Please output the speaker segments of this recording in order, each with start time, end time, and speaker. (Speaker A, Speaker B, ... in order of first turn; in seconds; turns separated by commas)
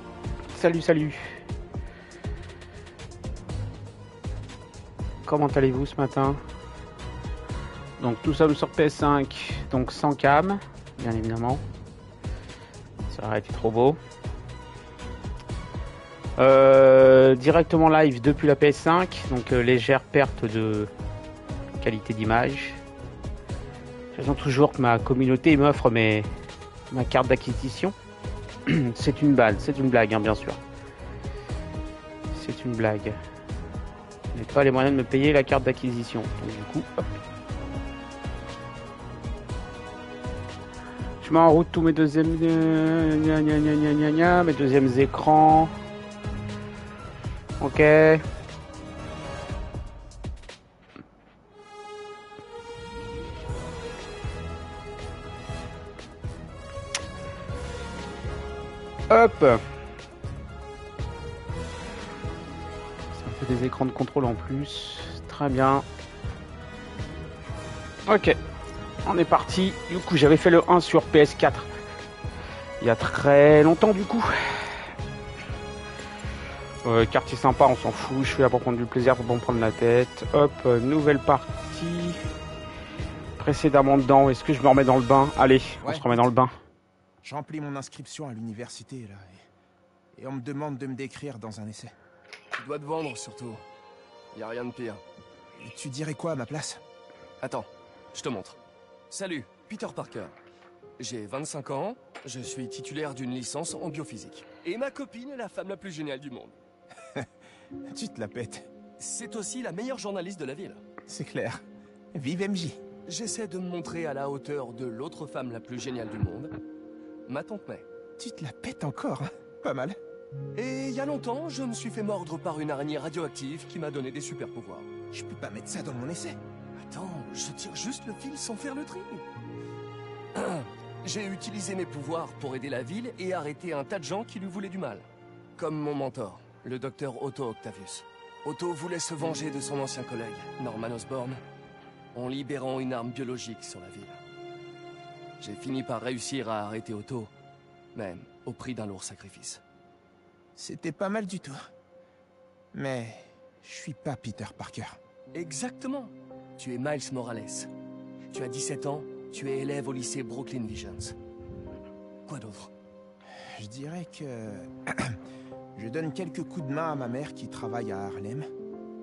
Speaker A: 0.5-1.4, Speaker A: 5.2-6.4, Speaker A: 8.0-11.6, Speaker A: 13.1-14.0, Speaker A: 16.4-20.9, Speaker A: 21.8-22.8, Speaker A: 24.1-26.3, Speaker A: 26.9-27.9, Speaker A: 28.7-30.6, Speaker A: 32.3-33.2, Speaker A: 34.3-36.9, Speaker A: 41.2-45.8, Speaker A: 47.6-48.2, Speaker A: 59.1-59.6, Speaker A: 63.1-65.9, Speaker A: 68.1-68.4, Speaker A: 69.0-71.7, Speaker A: 72.8-74.9, Speaker A: 76.8-82.2, Speaker A: 83.4-86.5, Speaker B: 85.8-86.3, Speaker B: 87.2-89.4, Speaker B: 90.2-92.0, Speaker C: 92.5-93.7, Speaker C: 94.3-95.0, Speaker B: 95.6-96.8, Speaker C: 97.4-98.6, Speaker C: 99.1-100.4, Speaker C: 101.0-106.6, Speaker B: 107.9-108.7, Speaker C: 109.0-110.8, Speaker B: 111.1-111.6, Speaker B: 112.1-112.8, Speaker C: 113.1-116.5, Speaker C: 117.3-117.9, Speaker B: 118.2-120.0, Speaker C: 120.5-124.9, Speaker B: 125.1-126.4, Speaker C: 126.8-129.2, Speaker C: 130.3-141.4, Speaker C: 142.1-144.2, Speaker C: 145.4-147.3, Speaker C: 147.9-149.6, Speaker B: 150.6-151.6, Speaker B: 152.7-155.0, Speaker C: 155.3-157.7, Speaker C: 158.3-161.2, Speaker C: 162.3-162.7, Speaker B: 163.4-165.2, Speaker B: 165.8-168.5